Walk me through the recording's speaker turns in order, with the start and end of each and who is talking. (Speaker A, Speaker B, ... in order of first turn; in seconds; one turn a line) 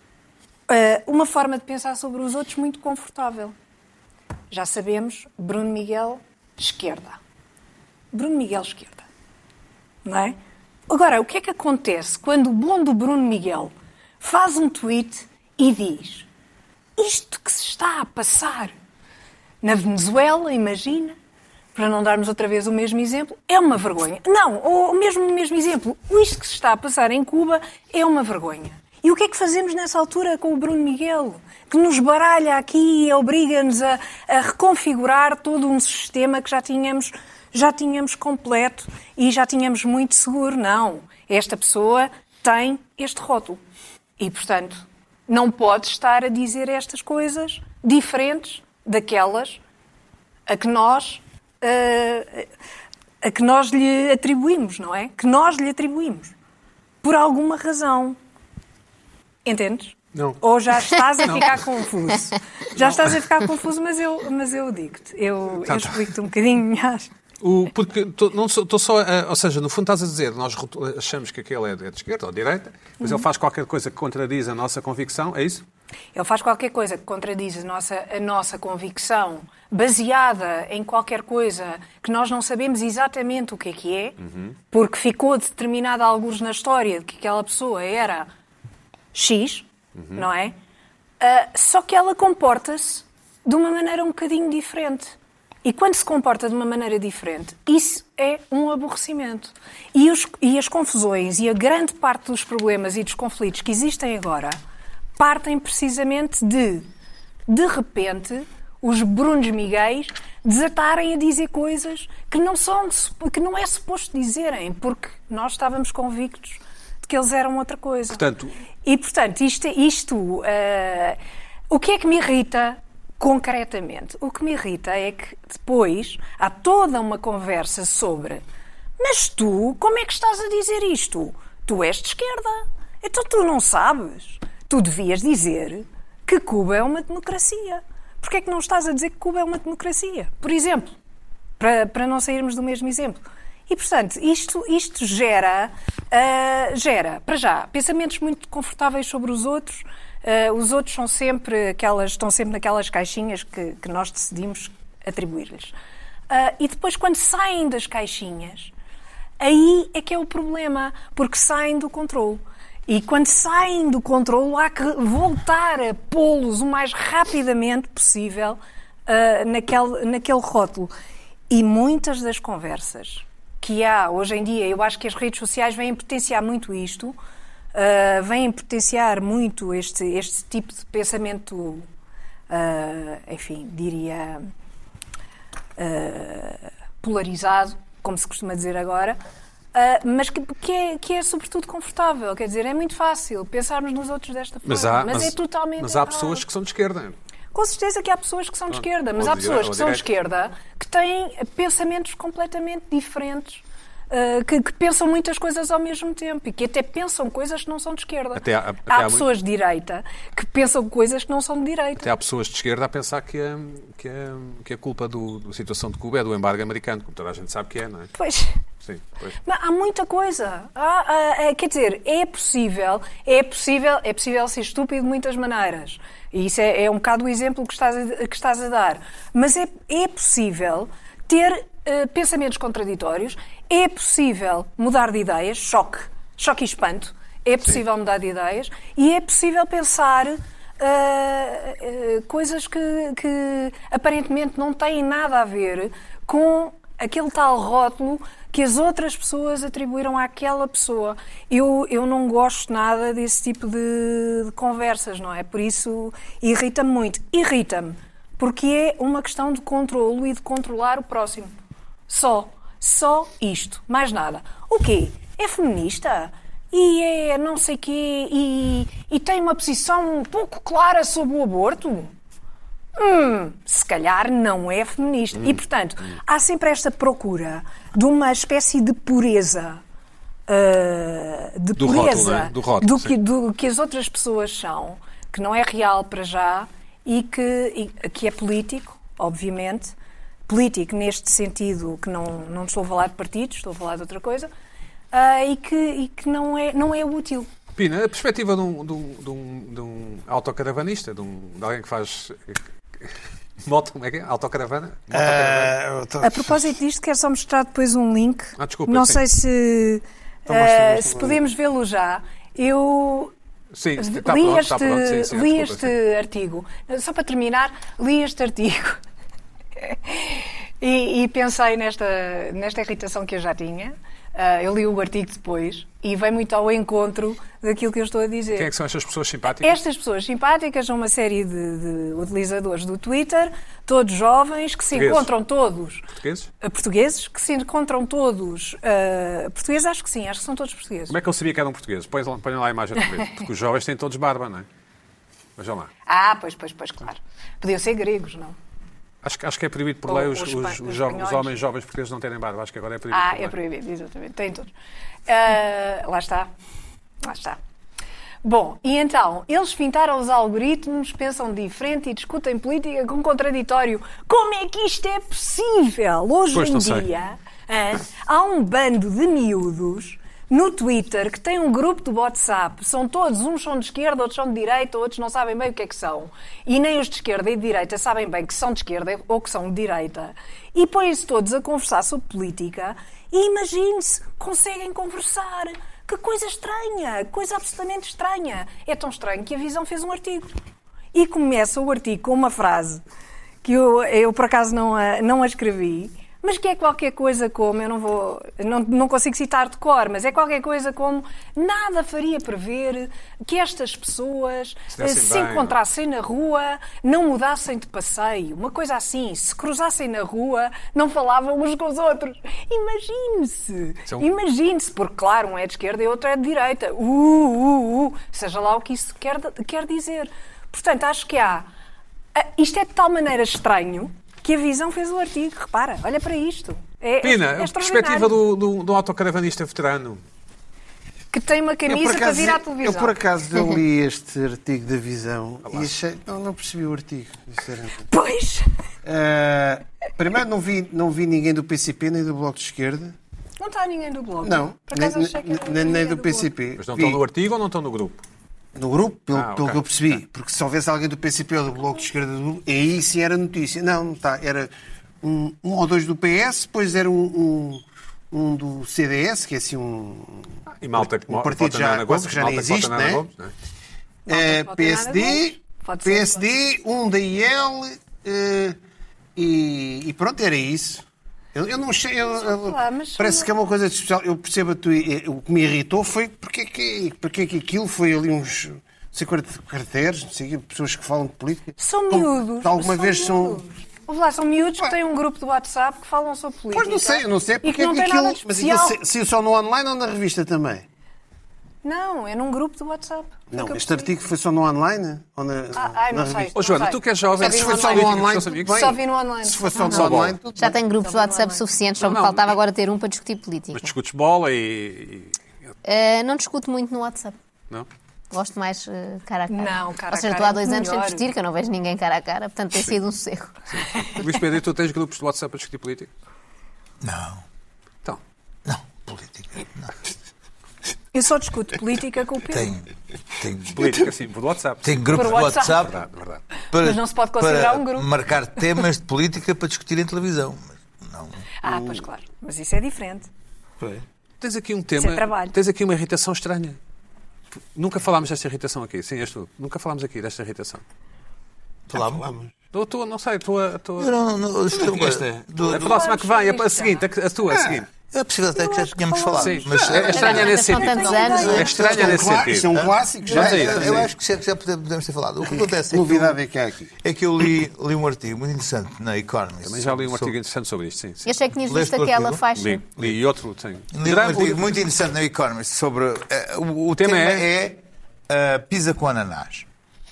Speaker A: 0.7-3.5
Speaker A: 4.5-7.2
Speaker A: 8.1-9.1
Speaker A: 10.0-10.4
Speaker A: 10.9-16.3
Speaker A: 17.0-18.7
Speaker A: 19.6-21.1
Speaker A: 21.7-43.6
Speaker A: 44.2-49.6
Speaker A: 50.5-52.5
Speaker A: 53.2-56.3
Speaker A: 57.0-58.1
Speaker A: 59.4-67.1
Speaker B: 61.2-61.5
Speaker B: 62.8-63.2
Speaker B: 65.6-66.0
Speaker B: 67.4-75.6
Speaker A: 76.1-84.2
Speaker B: 84.3-84.5
Speaker A: 84.7-88.3
Speaker A: 89.1-90.5
Speaker B: 90.0-90.3
Speaker A: 91.2-104.6
Speaker A: 105.2-106.8
Speaker A: 107.5-118.2
Speaker B: 118.1-118.5
Speaker A: 118.8-121.2
Speaker A: 121.7-128.4
Speaker A: 129.0-140.9
Speaker A: 141.6-155.7
Speaker A: 156.3-158.7
Speaker A: 159.4-170.9
Speaker A: 171.5-177.2
Speaker A: 177.7-181.8
Speaker A: 182.5-184.5
Speaker A: 185.8-189.2
Speaker A: 189.7-196.4
Speaker B: 194.6-197.2
Speaker A: 197.5-212.1
Speaker B: 198.7-200.0
Speaker B: 208.3-209.3
Speaker B: 212.0-218.1
Speaker A: 218.1-218.5
Speaker B: 218.8-219.3
Speaker A: 219.4-261.5
Speaker A: 262.1-272.1
Speaker A: 272.9-279.8
Speaker A: 280.5-289.9
Speaker B: 281.8-283.1
Speaker A: 290.5-294.5
Speaker A: 295.1-297.5
Speaker B: 297.8-305.7
Speaker C: 305.1-306.7
Speaker A: 306.2-313.3
Speaker B: 308.6-309.2
Speaker C: 310.5-311.4
Speaker B: 313.7-315.9
Speaker A: 314.0-319.0
Speaker A: 319.8-328.7
Speaker B: 328.5-329.8
Speaker A: 329.5-336.1
Speaker B: 334.9-335.3
Speaker B: 336.2-336.5
Speaker A: 336.6-341.1
Speaker B: 341.1-344.7
Speaker B: 345.6-345.9
Speaker A: 346.1-348.6
Speaker B: 349.2-353.6
Speaker A: 350.1-351.5
Speaker A: 353.1-354.7
Speaker A: 355.3-356.5
Speaker A: 357.2-357.6
Speaker A: 358.4-390.5
Speaker B: 366.5-367.1
Speaker A: 391.1-393.0
Speaker A: 393.6-421.7
Speaker B: 404.9-405.8
Speaker A: 422.3-428.4
Speaker B: 427.2-430.2
Speaker A: 431.3-433.2
Speaker C: 431.9-438.0
Speaker B: 435.6-435.9
Speaker A: 438.1-438.6
Speaker C: 439.0-443.1
Speaker A: 443.6-446.5
Speaker C: 444.4-447.2
Speaker B: 446.8-448.2
Speaker C: 448.7-454.7
Speaker B: 449.3-450.2
Speaker C: 455.2-463.2
Speaker B: 460.7-463.5
Speaker C: 464.2-468.8
Speaker A: 464.3-466.5
Speaker C: 469.4-471.0
Speaker C: 471.5-483.6
Speaker A: 472.3-473.5
Speaker A: 481.8-489.0
Speaker C: 486.7-490.9
Speaker A: 491.8-494.1
Speaker C: 493.5-496.5
Speaker A: 495.7-500.2
Speaker B: 496.5-498.9
Speaker C: 497.4-500.8
Speaker B: 499.7-500.3
Speaker D: 500.6-503.9
Speaker A: 500.8-501.6
Speaker B: 502.0-502.4
Speaker B: 503.7-505.4
Speaker D: 505.8-507.4
Speaker D: 508.3-513.5
Speaker A: 509.5-511.3
Speaker B: 513.7-516.1
Speaker E: 517.0-517.4
Speaker E: 518.6-520.0
Speaker A: 521.1-522.8
Speaker E: 522.5-522.8
Speaker E: 523.4-524.0
Speaker B: 523.7-526.4
Speaker E: 524.8-526.0
Speaker A: 525.1-525.8
Speaker E: 526.7-531.4
Speaker A: 526.8-528.1
Speaker A: 531.6-533.3
Speaker C: 531.7-532.0
Speaker B: 534.4-536.8
Speaker A: 535.0-535.6
Speaker B: 537.7-540.8
Speaker E: 541.9-542.2
Speaker C: 541.9-542.5
Speaker B: 542.7-544.1
Speaker E: 544.0-546.0
Speaker C: 544.7-545.8
Speaker B: 545.6-547.9
Speaker A: 545.8-547.0
Speaker C: 547.5-547.8
Speaker E: 548.1-556.4
Speaker A: 548.6-552.0
Speaker B: 549.4-552.7
Speaker D: 549.8-551.7
Speaker C: 551.6-554.1
Speaker B: 553.3-554.1
Speaker C: 555.5-556.9
Speaker E: 557.0-560.3
Speaker B: 559.6-561.3
Speaker D: 561.2-562.8
Speaker E: 561.6-562.4
Speaker B: 562.5-564.7
Speaker E: 563.9-569.7
Speaker B: 566.9-567.5